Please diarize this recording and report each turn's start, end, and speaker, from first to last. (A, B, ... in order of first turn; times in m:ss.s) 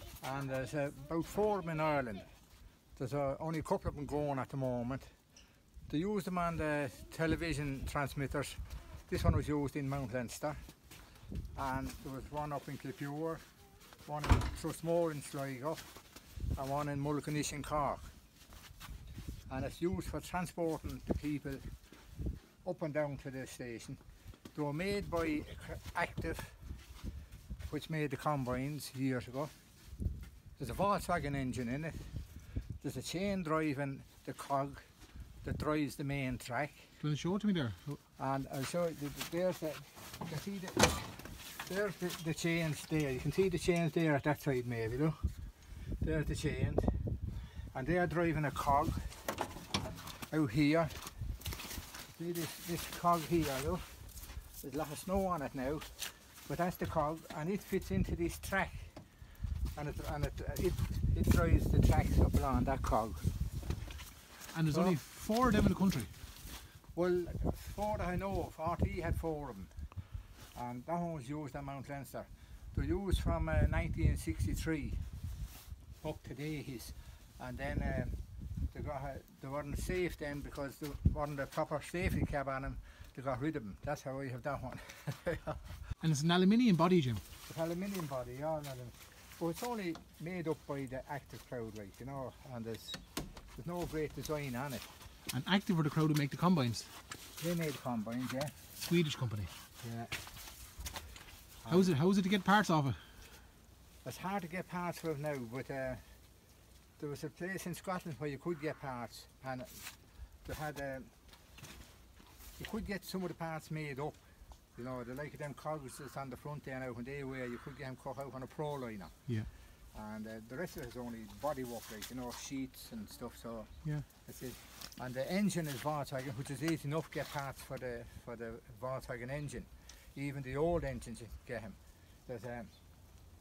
0:00.2-0:02.3 A
0:03.0-0:05.1 A
0:05.9-0:10.6 A
0:11.6-0:13.4 A
0:14.0-0:15.9 A
0:16.6-0:18.1 A
0:19.5-0:21.7 A
0:22.6-0:24.0 A
0:24.5-0:26.5 A
0:27.7-0:29.5 A
0:30.6-0:32.1 A
0:32.8-0:34.9 A
0:35.4-0:36.9 A
0:37.0-0:38.0 B
0:38.2-0:45.2 A
0:46.0-0:46.9 A
0:47.7-0:49.1 A
0:50.3-0:51.1 A
0:52.1-0:53.9 A
0:54.6-0:59.0 A
0:59.8-1:03.3 A
1:04.5-1:06.1 B
1:07.0-1:09.8 A
1:10.5-1:15.0 A
1:16.0-1:18.2 A
1:18.7-1:25.6 A
1:26.0-1:27.2 B
1:27.4-1:33.0 A
1:33.5-1:34.9 A
1:35.3-1:36.9 B
1:37.4-1:38.6 A
1:38.8-1:39.5 B
1:39.8-1:40.1 A
1:41.6-1:41.9 A
1:41.7-1:43.0 B
1:44.0-1:46.0 A
1:47.0-1:51.1 A
1:52.6-1:54.2 A
1:54.8-1:59.3 A
1:59.9-2:12.7 A